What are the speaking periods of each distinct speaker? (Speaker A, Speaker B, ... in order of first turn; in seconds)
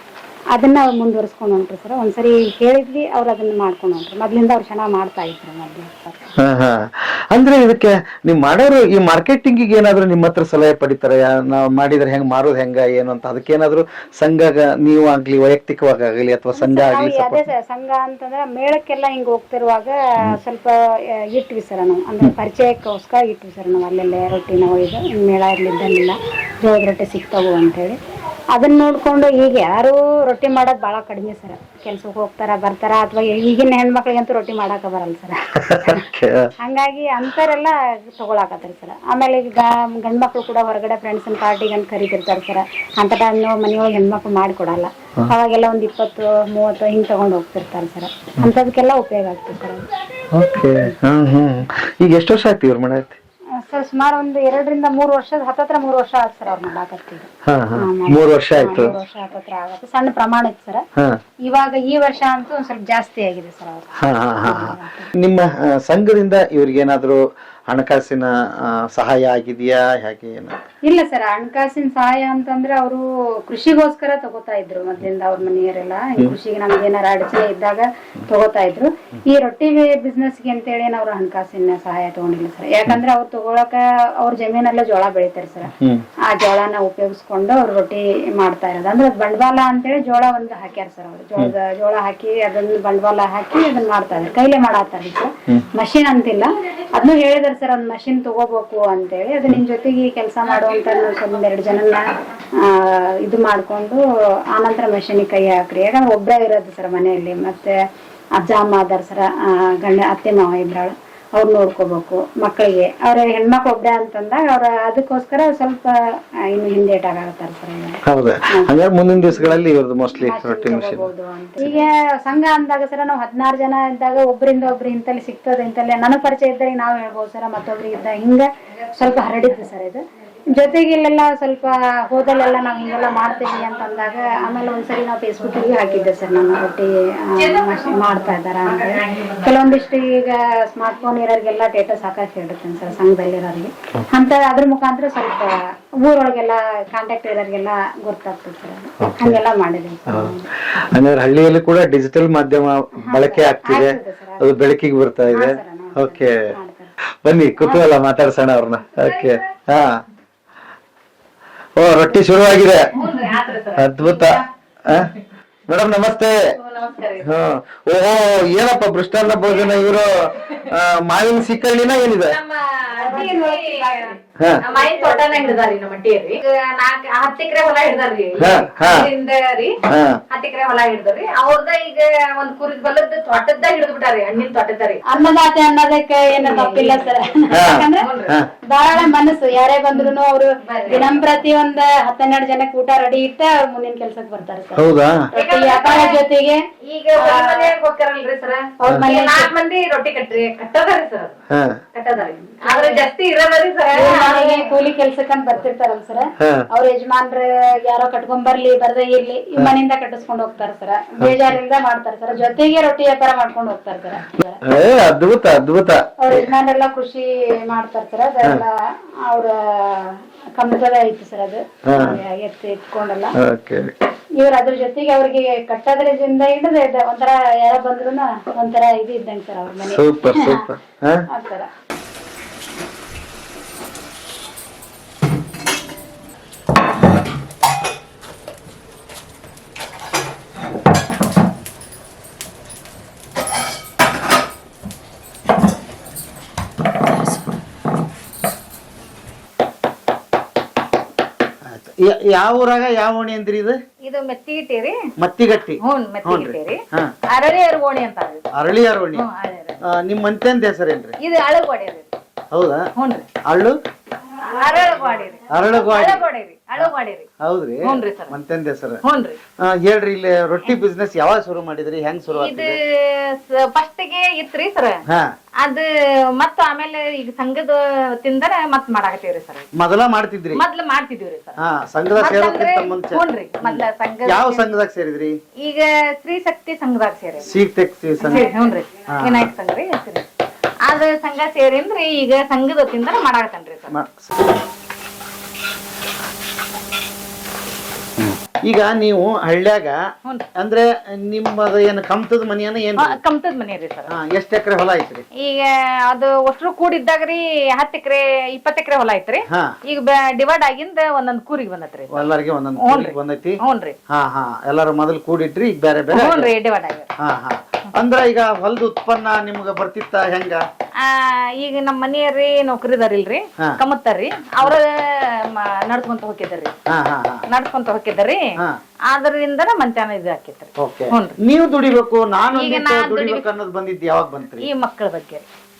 Speaker A: 0.5-6.2, 16.5-28.0, 28.5-36.1, 36.6-49.9, 53.5-60.8, 61.4-65.1, 70.9-102.0, 102.6-107.8, 108.3-118.7, 119.3-119.6, 120.2-150.5, 153.0-154.4, 155.3-156.9, 173.0-175.5, 185.1-188.1, 188.6-196.6, 197.2-197.7, 198.8-199.5, 202.3-203.1, 203.9-214.6, 216.2-223.3, 224.4-230.7, 231.3-231.7
Speaker B: 6.4-17.4, 35.6-36.5, 50.3-53.2, 57.5-58.9, 64.0-70.6, 85.8-86.0, 118.0-121.0, 149.0-149.4, 150.1-156.5, 157.2-160.0, 161.8-162.9, 163.8-165.1, 165.7-166.4, 167.2-172.3, 178.4-179.1, 179.8-180.2, 187.5-188.5, 194.8-195.2, 201.5-201.8, 211.2-211.5, 214.6-216.5, 221.9-222.2, 223.4-223.9, 229.8-231.2, 251.7-253.8, 255.2-257.1, 258.6-259.2, 259.9-261.1, 262.5-262.8, 263.5-263.8, 265.5-266.2, 267.4-267.8, 268.3-269.0, 269.6-272.7, 279.8-280.6, 281.6-285.3, 287.4-288.5, 293.9-294.5, 298.2-299.9, 300.6-303.1, 304.1-305.2, 312.2-313.6, 314.1-316.5, 317.2-320.6, 326.9-327.4, 330.8-334.6
Speaker C: 137.4-139.6, 158.9-159.4, 162.9-164.4, 166.6-167.3, 172.2-185.2, 186.3-188.4, 190.6-191.2, 195.3-196.2, 196.8-201.4, 201.9-204.7, 254.0-255.0, 255.8-258.4, 259.1-259.8, 261.2-262.1, 262.9-263.3, 264.4-267.3, 267.8-268.3, 269.0-269.4, 272.3-275.0, 275.6-279.7, 280.5-281.6, 282.2-284.6, 285.6-287.5, 288.2-290.3, 290.8-294.0, 303.0-304.1, 305.4-312.3, 312.8-313.9, 316.1-317.1, 321.0-326.7, 327.5-328.4, 329.1-331.4, 332.5-333.4, 334.6-335.4